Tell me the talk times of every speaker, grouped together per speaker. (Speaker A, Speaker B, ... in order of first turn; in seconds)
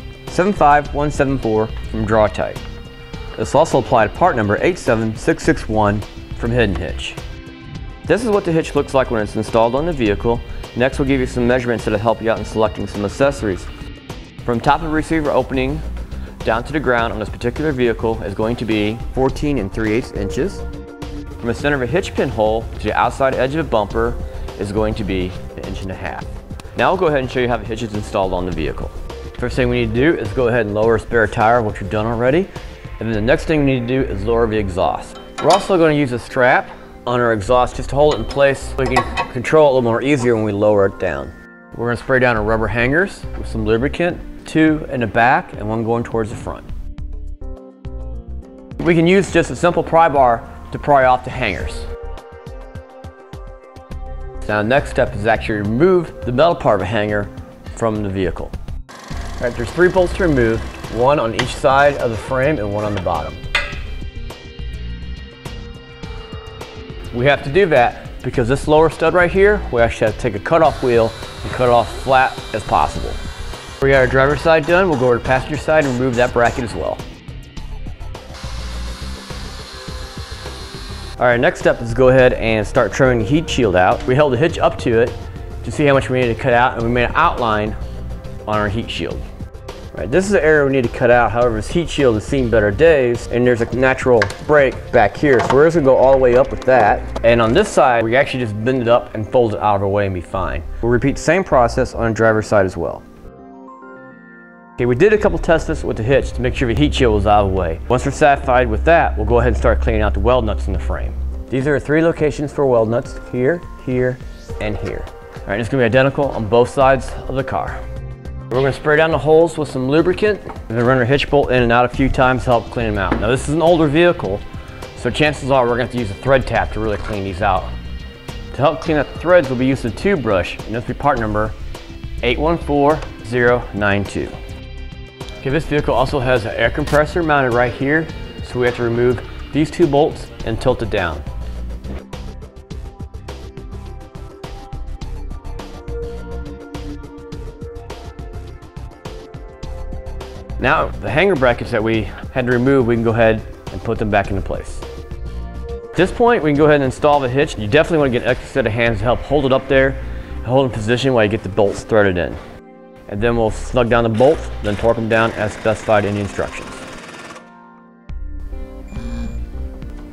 Speaker A: 0.3-2.6, 3.4-7.2, 8.1-13.7, 14.4-15.8, 16.4-20.6, 21.4-46.7, 48.8-51.9, 54.4-58.5, 59.4-63.4, 67.1-73.2, 73.8-77.0, 81.2-87.8, 88.5-89.2, 89.9-103.0, 104.8-117.8, 118.5-124.4, 125.0-127.7, 128.5-131.6, 132.2-134.3, 135.4-141.2, 150.6-154.8, 155.9-162.4, 163.1-166.9